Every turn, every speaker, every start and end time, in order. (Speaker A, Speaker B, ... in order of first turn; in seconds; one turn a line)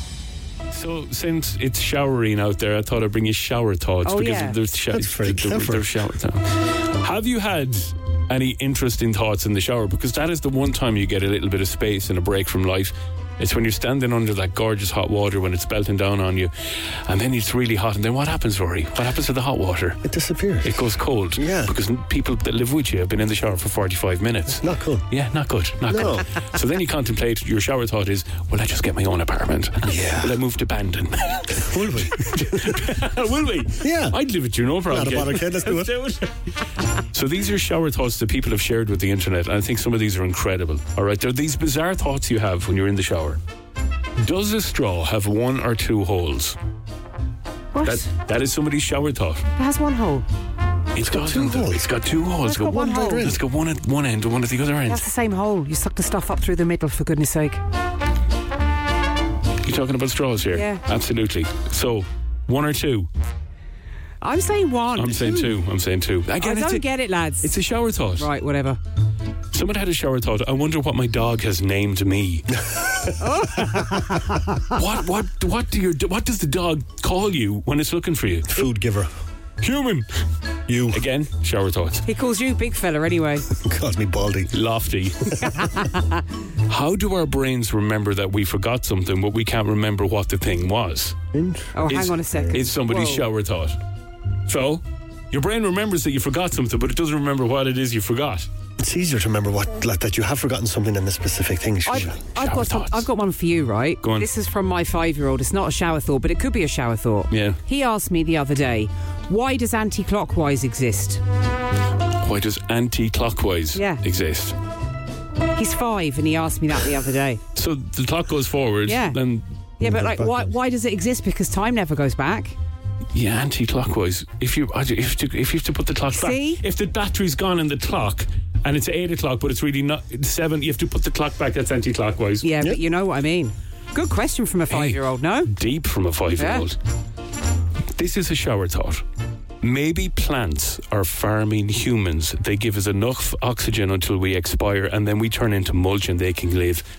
Speaker A: 0.7-20.0
Speaker B: 4.0-4.6
Speaker C: 4.9-5.9
Speaker C: 20.0-21.7
Speaker A: 20.6-36.3
Speaker C: 24.6-25.1
Speaker C: 25.9-26.3
Speaker C: 29.9-30.4
Speaker C: 31.6-32.9
Speaker C: 33.8-34.2
Speaker C: 34.9-36.0
Speaker A: 37.1-43.4
Speaker A: 44.2-46.6
Speaker B: 47.7-48.0
Speaker A: 47.8-49.5
Speaker B: 49.6-50.2
Speaker A: 50.9-55.0
Speaker C: 51.1-51.9
Speaker B: 52.5-53.3
Speaker C: 52.6-53.4
Speaker B: 54.9-57.6
Speaker A: 59.6-63.1
Speaker B: 60.5-60.8
Speaker B: 64.2-65.5
Speaker A: 65.0-66.9
Speaker B: 66.4-67.5
Speaker A: 67.4-68.3
Speaker B: 68.2-68.8
Speaker A: 69.5-72.5
Speaker B: 73.2-74.6
Speaker A: 74.7-78.5
Speaker C: 78.5-79.1
Speaker A: 79.6-80.1
Speaker C: 80.7-81.0
Speaker A: 80.8-82.0
Speaker B: 82.1-83.5
Speaker C: 83.6-84.5
Speaker A: 84.5-85.4
Speaker B: 85.4-86.2
Speaker A: 86.7-91.2
Speaker C: 91.3-92.6
Speaker B: 91.8-93.2
Speaker A: 91.9-93.8
Speaker A: 94.5-98.5
Speaker C: 98.8-102.2
Speaker B: 101.9-111.2
Speaker A: 101.9-103.1
Speaker A: 104.0-104.3
Speaker A: 107.3-107.6
Speaker A: 112.2-114.5
Speaker B: 113.8-114.0
Speaker B: 115.5-117.4
Speaker A: 117.5-119.5
Speaker B: 118.9-119.2
Speaker B: 119.8-122.6
Speaker C: 119.8-120.5
Speaker A: 123.1-132.4
Speaker B: 126.2-126.6
Speaker B: 132.4-135.5
Speaker A: 134.7-136.8
Speaker B: 136.4-136.6
Speaker A: 138.0-139.0
Speaker A: 139.6-146.8